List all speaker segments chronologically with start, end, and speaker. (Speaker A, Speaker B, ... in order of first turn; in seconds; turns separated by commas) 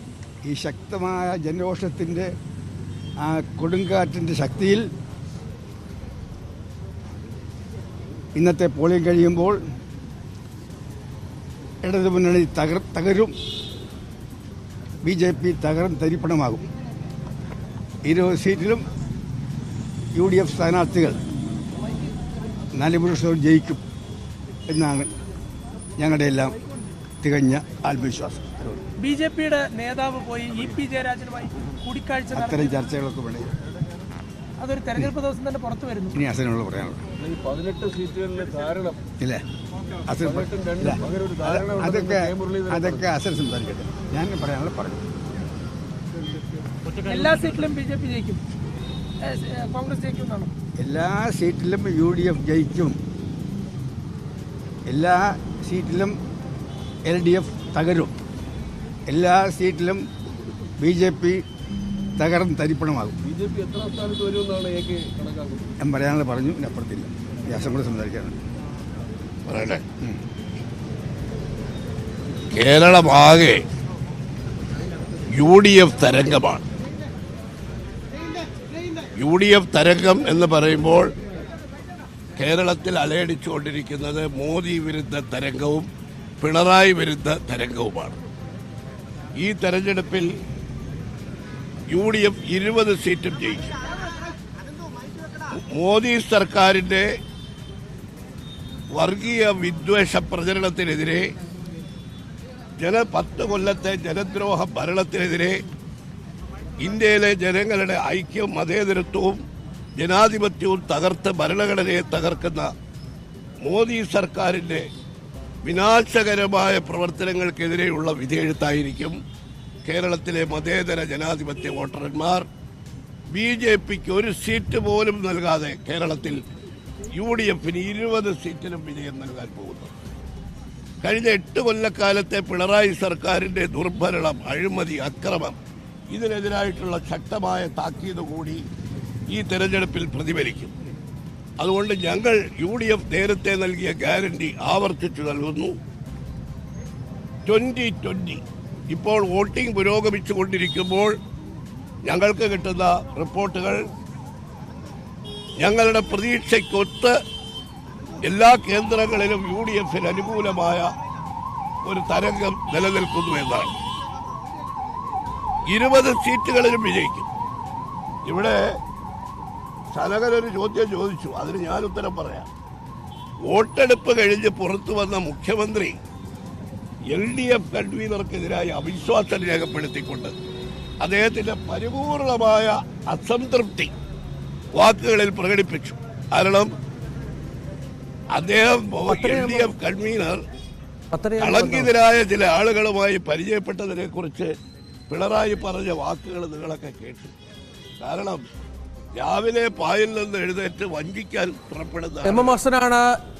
Speaker A: 0.4-2.3, Speaker A: 3.2-4.9, Speaker A: 8.3-9.6, Speaker A: 11.8-13.3, Speaker A: 15.0-16.6, Speaker A: 18.0-18.8, Speaker A: 20.1-21.2, Speaker A: 22.8-23.8, Speaker A: 24.7-25.1, Speaker A: 26.0-26.6, Speaker A: 27.2-28.8, Speaker B: 29.0-32.7, Speaker A: 32.3-33.5, Speaker B: 34.6-36.2, Speaker A: 36.1-37.0, Speaker C: 37.2-39.0, Speaker A: 40.1-45.0, Speaker C: 40.2-43.1, Speaker B: 47.0-48.4, Speaker B: 49.2-50.5, Speaker A: 50.8-53.0, Speaker A: 54.9-56.1, Speaker A: 57.1-58.1, Speaker A: 59.1-60.0, Speaker A: 60.8-61.4, Speaker A: 62.2-63.2, Speaker C: 63.2-65.7, Speaker A: 65.8-68.3, Speaker D: 69.5-69.8, Speaker D: 72.5-73.6, Speaker D: 75.3-76.7, Speaker D: 79.2-81.1, Speaker D: 82.4-85.9, Speaker D: 86.4-88.2, Speaker D: 89.4-90.3, Speaker D: 91.9-93.7, Speaker D: 95.5-97.0, Speaker D: 98.9-101.3, Speaker D: 102.8-105.6, Speaker D: 106.8-109.4, Speaker D: 110.0-112.7, Speaker D: 113.6-114.8, Speaker D: 115.6-119.2, Speaker D: 119.8-122.5, Speaker D: 123.3-126.4, Speaker D: 127.2-129.9, Speaker D: 131.0-135.6, Speaker D: 136.1-138.6, Speaker D: 139.3-140.7, Speaker D: 141.6-145.7, Speaker D: 147.4-151.1, Speaker D: 152.0-153.8, Speaker D: 155.6-157.1, Speaker D: 158.2-160.9, Speaker D: 161.8-163.7, Speaker D: 165.7-167.3, Speaker D: 168.2-168.6, Speaker D: 169.9-172.5, Speaker D: 173.5-175.9, Speaker D: 177.1-180.3, Speaker D: 181.0-183.9, Speaker D: 184.8-186.7, Speaker D: 188.3-190.4, Speaker E: 189.1-189.7, Speaker E: 191.1-191.9, Speaker D: 191.4-194.5, Speaker D: 195.1-197.3, Speaker D: 198.0-198.4, Speaker D: 199.2-202.6, Speaker E: 202.2-203.2